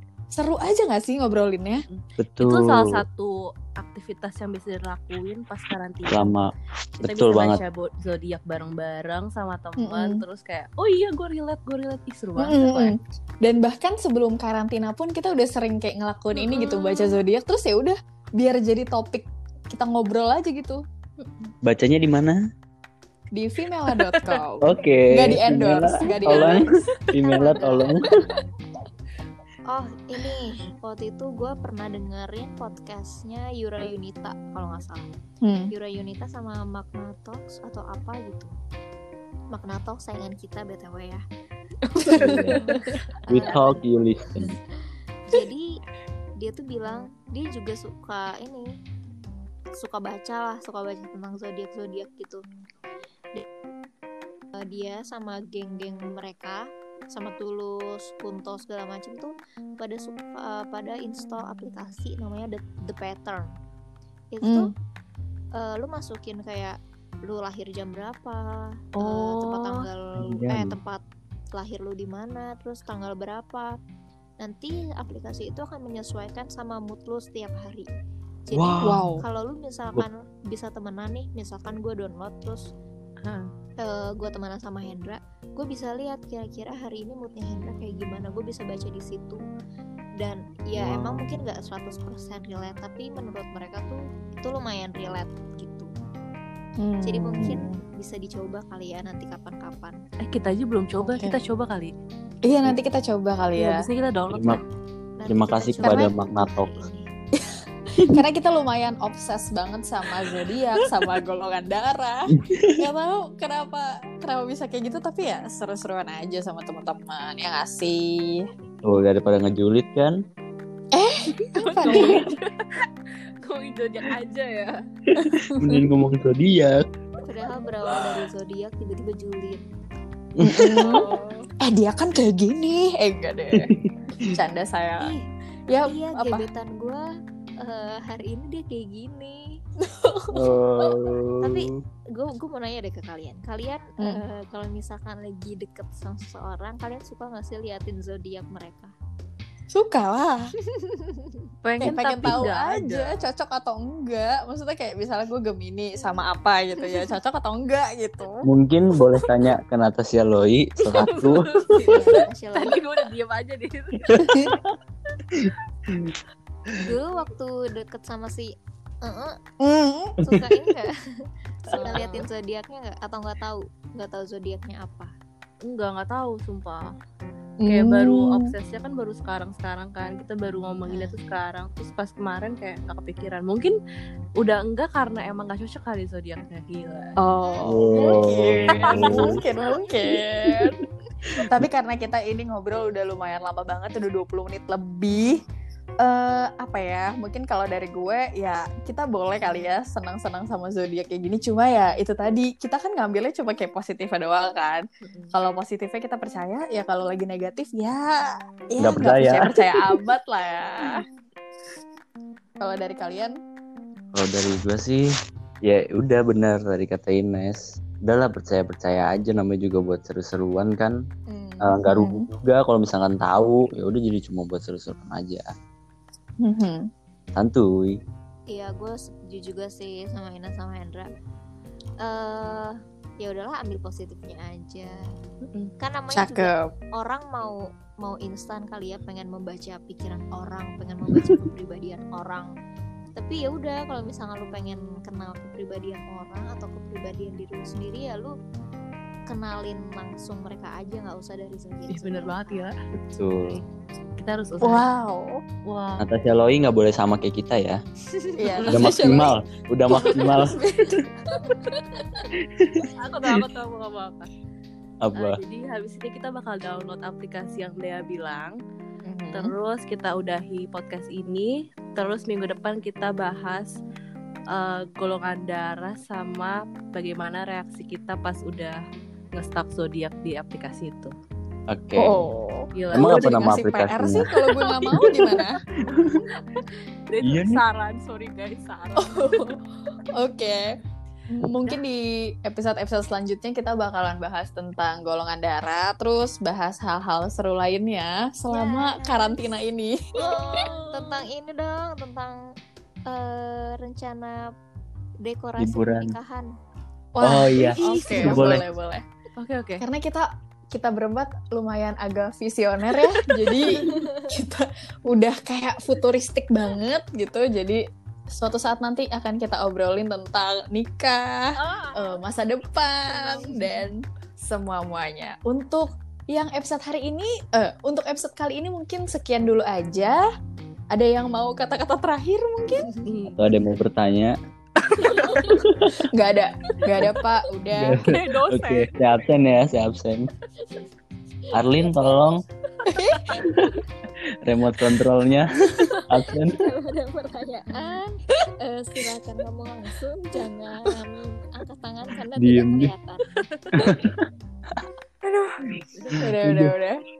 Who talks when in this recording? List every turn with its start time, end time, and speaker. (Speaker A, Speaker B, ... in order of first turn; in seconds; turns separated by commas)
Speaker A: 0.3-1.8, Speaker B: 1.9-6.3, Speaker C: 2.2-3.0, Speaker C: 6.1-7.6, Speaker B: 7.0-12.9, Speaker A: 9.8-10.2, Speaker A: 12.4-20.8, Speaker B: 16.3-17.2, Speaker C: 21.6-22.4, Speaker A: 23.3-26.7, Speaker B: 23.9-24.4, Speaker C: 24.6-28.1, Speaker D: 27.3-28.0, Speaker D: 29.7-35.1, Speaker A: 35.4-35.7, Speaker D: 35.7-38.5, Speaker D: 39.5-41.2, Speaker A: 42.0-43.0, Speaker D: 42.1-42.8, Speaker C: 42.1-42.7, Speaker C: 43.3-44.6, Speaker D: 43.3-43.8, Speaker D: 45.3-45.6, Speaker D: 46.4-48.7, Speaker D: 49.8-52.4, Speaker D: 54.6-63.5, Speaker D: 64.3-64.7, Speaker A: 64.4-64.7, Speaker D: 65.6-71.0, Speaker B: 69.0-69.9, Speaker C: 70.2-70.8, Speaker D: 71.5-73.7, Speaker D: 74.4-77.9, Speaker D: 78.5-82.6, Speaker C: 78.5-79.0, Speaker A: 78.8-79.2, Speaker B: 83.2-83.5, Speaker D: 83.8-89.4, Speaker D: 90.2-95.9, Speaker C: 90.8-91.3, Speaker A: 96.8-97.8, Speaker D: 97.0-100.0, Speaker B: 100.2-101.9, Speaker A: 101.0-101.4, Speaker A: 102.4-103.9, Speaker B: 103.5-104.6, Speaker C: 104.3-104.6, Speaker D: 105.2-107.1, Speaker C: 105.3-106.8, Speaker A: 105.8-106.1, Speaker A: 108.0-118.4, Speaker C: 112.4-112.8, Speaker C: 118.8-120.2, Speaker A: 120.9-122.3, Speaker B: 121.5-122.8, Speaker B: 123.4-124.8, Speaker C: 125.2-126.8, Speaker A: 125.2-125.8, Speaker D: 127.2-129.6, Speaker C: 130.4-130.9, Speaker A: 130.4-133.7, Speaker B: 130.8-131.5, Speaker C: 133.8-134.3, Speaker A: 134.3-135.1, Speaker A: 135.7-136.5, Speaker D: 135.8-137.1, Speaker D: 137.6-139.4, Speaker A: 139.8-140.3, Speaker C: 140.3-141.6, Speaker D: 142.2-148.9, Speaker A: 149.7-150.5, Speaker D: 150.7-151.4, Speaker B: 151.6-153.2, Speaker A: 151.8-158.5, Speaker C: 158.5-161.9, Speaker B: 160.9-164.3, Speaker D: 161.8-162.8, Speaker C: 164.1-164.4, Speaker C: 165.3-166.2, Speaker D: 166.8-169.4, Speaker A: 169.6-170.2, Speaker D: 170.2-170.9, Speaker A: 171.7-172.3, Speaker D: 171.7-175.1, Speaker B: 172.0-172.2, Speaker B: 175.6-176.9, Speaker A: 177.6-178.5, Speaker B: 177.6-183.8, Speaker D: 180.8-181.2, Speaker B: 184.4-187.2, Speaker A: 187.2-190.8, Speaker D: 187.4-188.2, Speaker C: 187.6-189.4, Speaker B: 188.7-189.5, Speaker D: 189.3-189.8, Speaker A: 191.4-195.4, Speaker A: 196.0-211.0, Speaker B: 205.0-205.3, Speaker C: 208.8-209.9, Speaker A: 212.6-213.4, Speaker C: 214.1-215.1, Speaker C: 215.6-220.9, Speaker A: 221.3-222.3, Speaker C: 221.6-225.5, Speaker A: 226.4-226.9, Speaker C: 227.3-228.0, Speaker D: 228.5-231.1, Speaker D: 232.0-234.9, Speaker D: 235.8-242.5, Speaker A: 236.1-236.7, Speaker D: 243.2-248.3, Speaker D: 249.3-252.7, Speaker B: 251.9-252.8, Speaker C: 253.1-253.6, Speaker B: 254.2-254.8, Speaker A: 254.6-255.4, Speaker B: 255.7-256.1, Speaker C: 256.0-257.8, Speaker A: 258.4-259.4, Speaker B: 258.6-258.9, Speaker C: 258.7-260.6, Speaker A: 259.9-261.5, Speaker C: 262.6-262.9, Speaker B: 263.0-264.3, Speaker C: 265.0-265.4, Speaker B: 265.1-268.6, Speaker A: 269.1-269.5, Speaker B: 269.3-273.8, Speaker B: 274.5-278.8, Speaker B: 279.4-281.1, Speaker C: 281.7-282.3, Speaker A: 282.0-285.6, Speaker B: 282.8-283.5, Speaker C: 282.9-284.3, Speaker B: 284.5-289.5, Speaker C: 287.2-287.6, Speaker A: 289.0-289.6, Speaker A: 290.1-290.6, Speaker A: 291.3-300.7, Speaker D: 298.5-299.5, Speaker D: 300.2-302.4, Speaker B: 300.2-301.2, Speaker D: 303.1-304.5, Speaker D: 305.2-306.5, Speaker C: 305.6-306.1, Speaker A: 307.1-309.0, Speaker C: 307.2-308.6, Speaker B: 307.8-308.6, Speaker B: 309.4-309.9, Speaker A: 309.8-317.8, Speaker A: 318.3-330.2, Speaker B: 321.6-322.2, Speaker B: 323.1-323.9, Speaker A: 330.9-332.9, Speaker D: 332.7-333.1, Speaker B: 333.1-333.5, Speaker C: 333.4-334.3, Speaker B: 334.9-335.7, Speaker C: 335.7-336.0, Speaker A: 336.0-338.1, Speaker C: 337.8-340.3, Speaker B: 338.0-338.9, Speaker C: 341.5-342.4, Speaker A: 342.9-343.4, Speaker B: 343.5-343.8, Speaker C: 344.4-346.6, Speaker D: 345.8-353.3, Speaker C: 352.4-352.9, Speaker B: 353.4-353.9, Speaker C: 353.8-354.3, Speaker B: 355.9-356.3, Speaker A: 356.1-357.0, Speaker C: 356.3-356.7